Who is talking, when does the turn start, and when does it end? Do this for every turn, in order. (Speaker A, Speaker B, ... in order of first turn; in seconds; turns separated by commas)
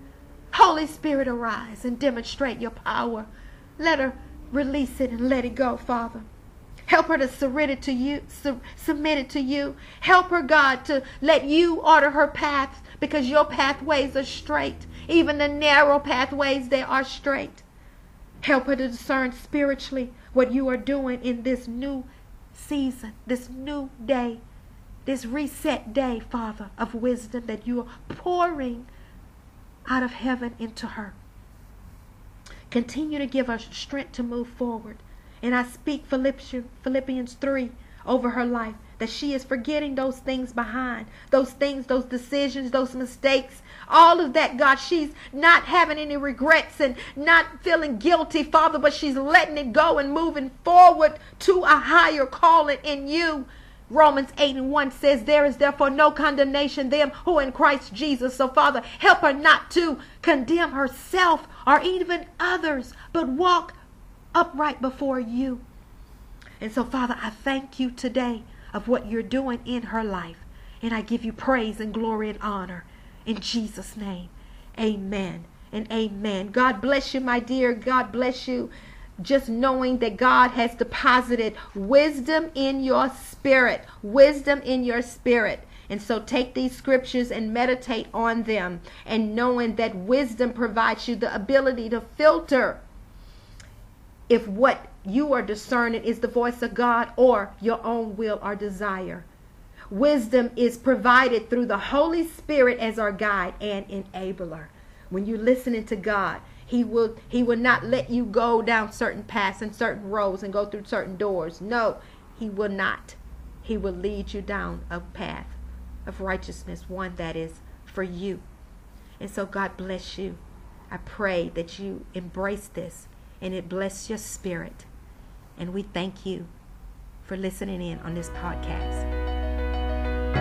Speaker A: 0.5-6.3, Speaker A: 6.9-17.6, Speaker A: 18.4-24.4, Speaker A: 25.1-28.9, Speaker A: 29.9-31.2, Speaker A: 32.7-63.8, Speaker A: 64.3-65.6, Speaker A: 66.6-92.8, Speaker A: 94.3-99.3, Speaker A: 99.9-118.4, Speaker A: 119.2-124.9, Speaker A: 125.6-126.5, Speaker A: 127.2-129.1